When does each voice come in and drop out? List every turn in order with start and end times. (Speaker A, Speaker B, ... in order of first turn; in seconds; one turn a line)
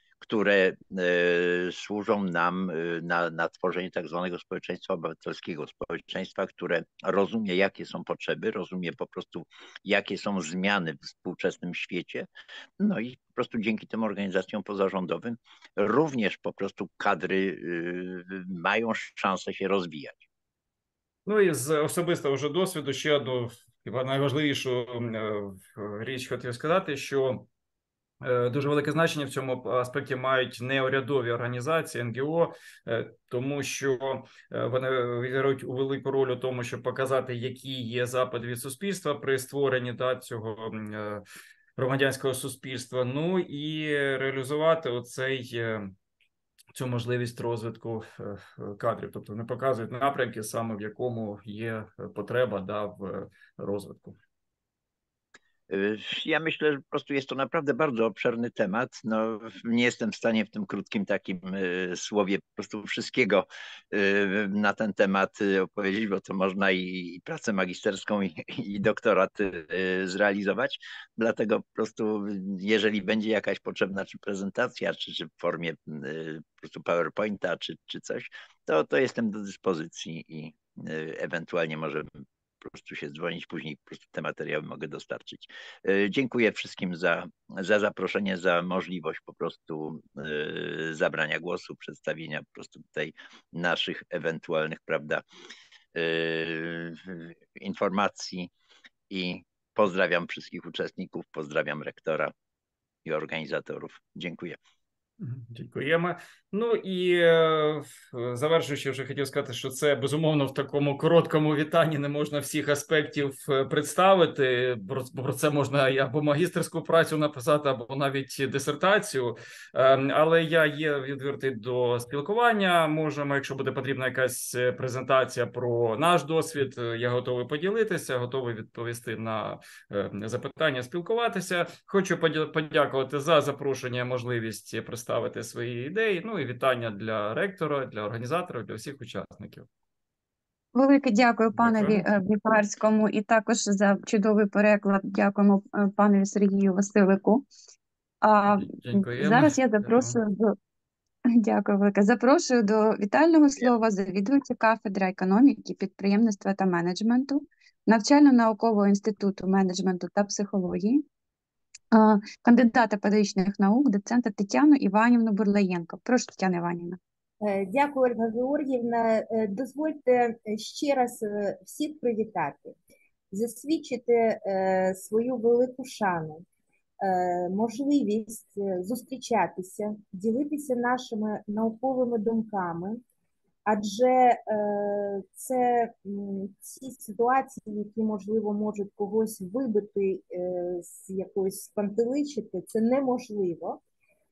Speaker A: 0.2-12.3
Speaker A: 12.8-20.2
Speaker B: 21.2-27.5
Speaker B: 28.2-41.2
Speaker B: 41.8-45.9
Speaker B: 46.7-54.1
Speaker A: 55.7-82.1
Speaker A: 82.6-95.2
Speaker A: 95.9-98.5
Speaker A: 99.1-102.3
Speaker A: 103.0-104.6
Speaker B: 105.2-139.7
Speaker C: 140.7-147.4
Speaker B: 141.5-142.1
Speaker C: 148.2-150.6
Speaker B: 148.5-150.2
Speaker C: 151.4-161.0
Speaker C: 161.9-167.0
Speaker D: 167.4-172.7
Speaker D: 173.3-176.4
Speaker D: 177.0-183.0
Speaker D: 183.7-193.8